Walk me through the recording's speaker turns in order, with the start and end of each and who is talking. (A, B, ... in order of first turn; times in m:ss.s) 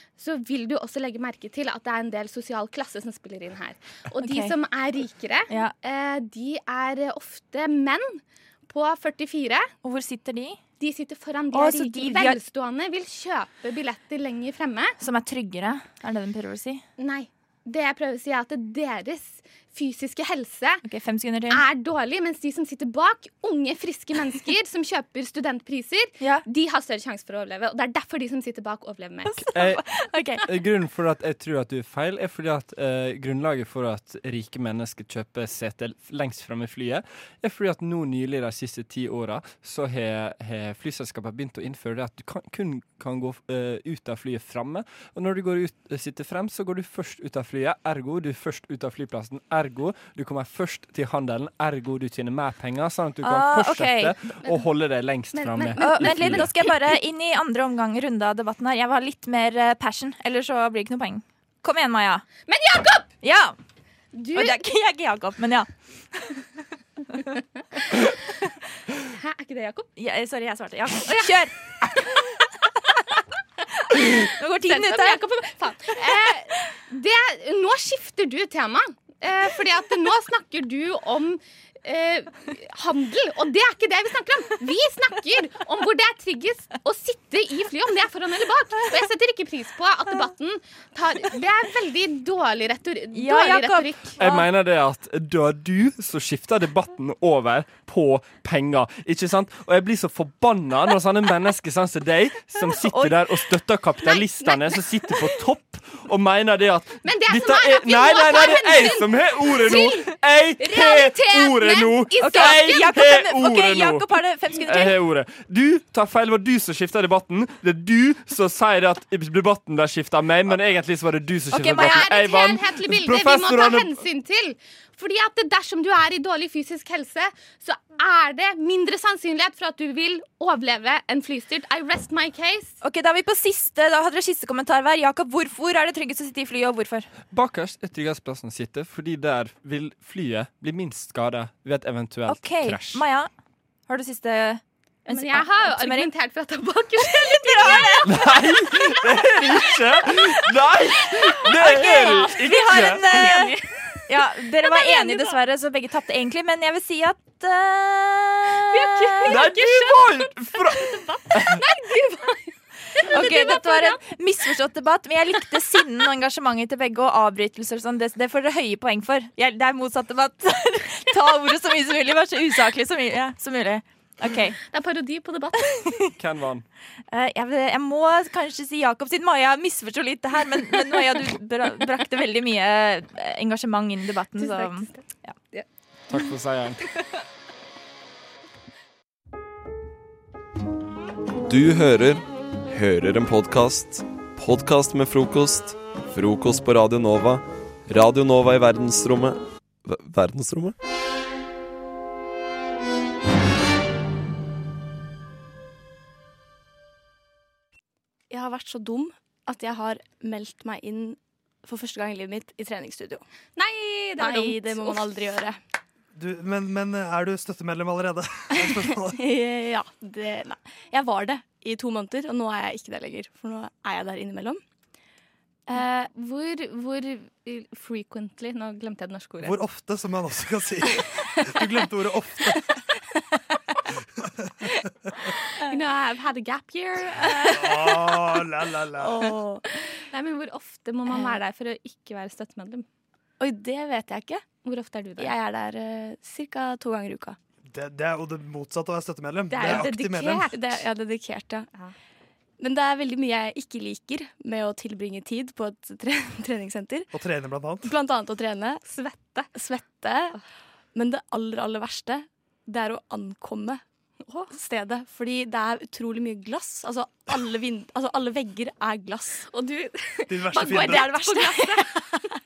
0:00.2-0:09.7 A
0:04.2-0:04.5 B
0:09.8-0:10.6 B
0:10.8-0:15.0 A
0:11.5-0:12.4 B
0:15.0-0:16.8 B
0:17.0-0:20.8 A
0:20.8-0:21.6 B
0:21.5-0:29.4 A
0:29.3-0:30.4 B
0:29.5-0:29.8 C
0:30.4-0:56.5 C
0:53.2-0:54.2 B
0:55.3-0:56.5 A
0:55.8-1:02.2 B
1:02.5-1:03.1 A
1:03.2-1:03.6 B
1:04.1-1:04.6 A
1:04.4-1:05.7 B
1:09.1-1:09.9 A
1:10.0-1:11.5 B
1:11.1-1:11.4 A
1:13.9-1:15.2 B
1:14.2-1:34.2 A
1:33.1-1:34.5 B
1:34.2-1:54.1 C
1:42.7-1:43.2 B
1:44.1-1:44.8 A
1:47.0-1:52.9 A
1:52.2-1:55.0 B
1:54.6-2:04.0 C
2:01.5-2:02.2 B
2:01.7-2:12.8 A
2:12.8-2:17.1 B
2:17.3-2:23.0 C
2:22.3-2:23.3 B
2:23.9-2:26.1 B
2:25.1-2:28.2 A
2:27.1-2:28.3 B
2:28.0-2:33.2 C
2:31.5-2:33.6 B
2:31.8-2:34.0 A
2:34.1-2:39.4 B
2:34.6-2:35.4 A
2:38.7-2:44.0 A
2:39.3-2:41.6 C
2:43.1-2:54.6 B
2:54.7-2:55.8 A
2:56.2-2:56.6 C
2:57.1-3:05.4 B
3:04.4-3:05.0 A
3:06.1-3:06.8 C
3:11.5-3:20.8 D
3:28.3-3:33.2 E
3:33.6-3:35.1 A
3:34.2-3:35.6 E
3:36.2-3:39.2 F
3:38.6-3:44.6 E
3:45.7-3:46.1 E
3:46.1-3:49.6 A
3:49.4-3:52.6 F
3:55.6-3:58.2 A
3:57.2-3:58.0 E
3:57.5-3:59.2 F
3:59.0-3:59.6 E
4:00.1-4:02.9 A
4:01.1-4:01.4 E
4:03.4-4:04.4 E
4:04.6-4:05.4 A
4:05.2-4:07.4 E
4:07.7-4:10.6 F
4:09.5-4:10.7 A
4:09.6-4:09.9 E
4:10.5-4:11.7 E
4:12.6-4:17.1 E
4:17.1-4:17.9 F
4:17.8-4:18.8 E
4:18.8-4:19.5 A
4:19.5-4:20.4 E
4:20.9-4:23.8 E
4:24.5-4:29.5 E
4:29.5-4:32.0 A
4:30.3-4:31.1 F
4:30.6-4:32.0 E